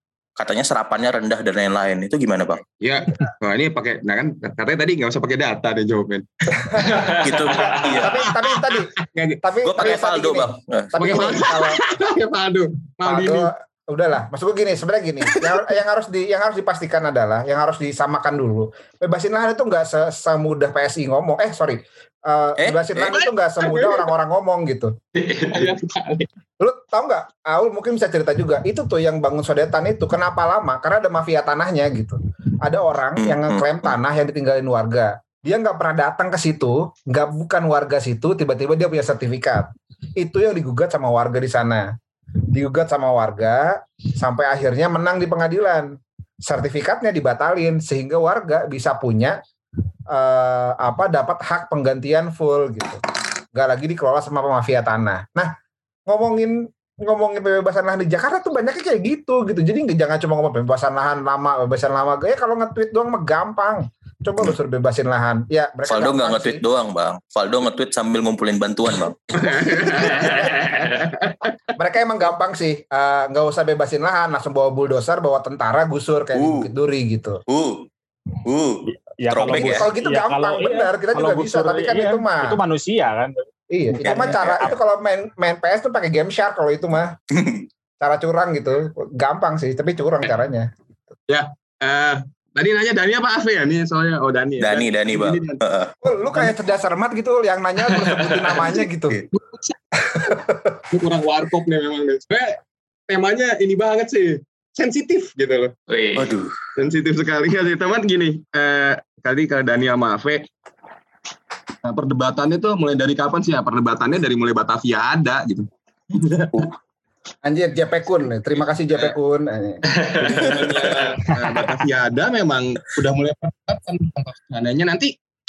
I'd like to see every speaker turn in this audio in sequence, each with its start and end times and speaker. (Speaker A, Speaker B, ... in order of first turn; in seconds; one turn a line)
Speaker A: 0.4-2.6
Speaker B: 2.8-10.0
Speaker C: 6.9-7.2
Speaker A: 7.1-8.3
Speaker D: 7.9-11.8
Speaker A: 9.6-11.5
Speaker B: 11.0-13.5
Speaker D: 13.0-24.9
Speaker B: 15.3-15.6
Speaker A: 22.6-23.2
Speaker B: 23.2-24.1
Speaker C: 25.2-25.7
Speaker B: 25.4-26.3
Speaker D: 26.6-41.9
Speaker A: 33.2-33.9
Speaker D: 42.5-49.4
Speaker D: 50.1-53.0
Speaker D: 53.5-55.5
Speaker D: 56.1-66.6
Speaker A: 65.9-70.4
Speaker B: 69.3-71.6
Speaker D: 70.0-70.6
Speaker C: 70.2-71.0
Speaker D: 71.8-77.4
Speaker A: 76.3-76.7
Speaker A: 77.5-77.9
Speaker A: 78.4-79.9
Speaker E: 79.2-83.5
Speaker D: 79.5-82.6
Speaker D: 83.7-87.2
Speaker A: 84.0-84.8
Speaker A: 87.3-87.7
Speaker D: 88.0-90.7
Speaker B: 91.3-95.6
Speaker A: 94.6-95.9
Speaker D: 96.0-99.2
Speaker C: 98.1-98.5
Speaker B: 99.3-99.8
Speaker D: 100.0-100.8
Speaker B: 100.9-105.7
Speaker C: 105.9-106.3
Speaker A: 106.2-106.5
Speaker B: 106.8-110.5
Speaker B: 111.8-116.7
Speaker D: 117.4-120.5
Speaker C: 120.0-120.6
Speaker B: 120.2-125.1